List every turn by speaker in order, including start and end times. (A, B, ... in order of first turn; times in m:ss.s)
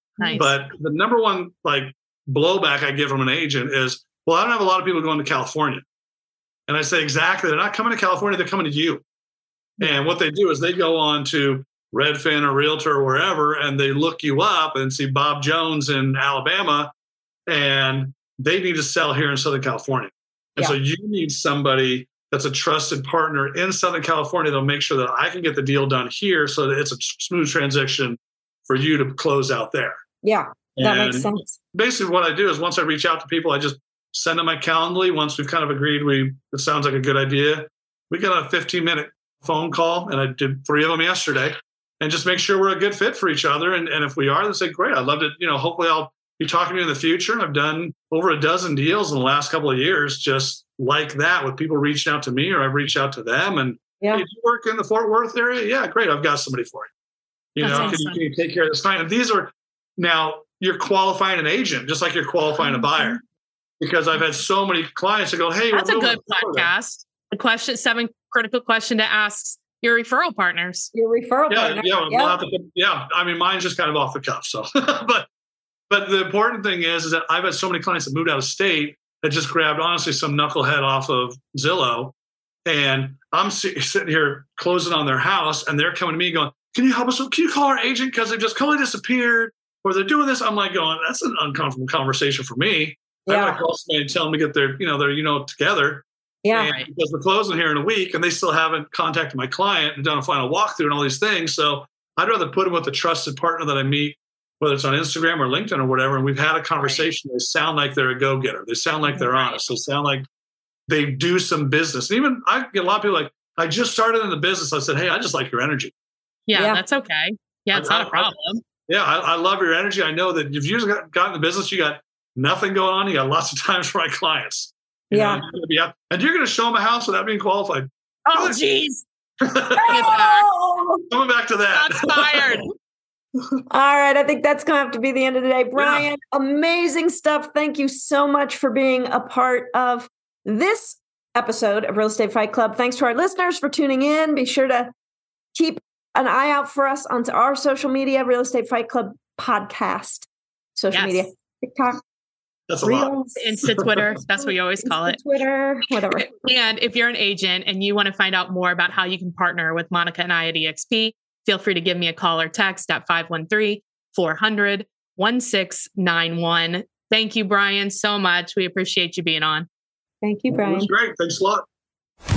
0:00.2-0:00.6 A
0:00.4-0:05.8 B
0:06.7-0:09.0 B
0:09.8-0:16.9 B
0:17.5-0:30.0 B
0:30.2-0:31.5 C
0:30.8-0:56.9 B
0:57.6-1:03.2 B
0:57.6-0:58.2 A
0:57.7-0:58.0 C
1:02.6-1:03.1 C
1:03.8-1:06.7 B
1:05.7-1:10.9 A
1:10.9-1:12.4 C
1:11.5-1:15.3 B
1:15.9-1:22.1 B
1:22.6-1:50.2 B
1:33.3-1:33.6 C
1:36.4-1:36.7 C
1:46.8-1:47.0 A
1:49.2-1:49.6 A
1:50.9-1:55.9 B
1:56.5-1:58.6 A
1:56.5-1:56.8 C
1:57.7-1:58.3 B
1:58.9-2:08.6 B
2:05.1-2:05.4 C
2:08.2-2:09.0 A
2:09.4-2:10.1 B
2:09.8-2:11.0 C
2:09.8-2:10.5 A
2:11.1-2:12.4 B
2:11.7-2:12.7 A
2:13.7-2:24.9 C
2:15.8-2:16.1 B
2:25.5-2:32.0 C
2:30.9-2:31.3 A
2:32.7-2:33.8 B
2:32.8-2:33.6 C
2:33.4-2:35.2 A
2:34.3-2:36.3 C
2:36.1-2:49.7 A
2:50.2-2:50.9 C
2:50.5-2:51.6 B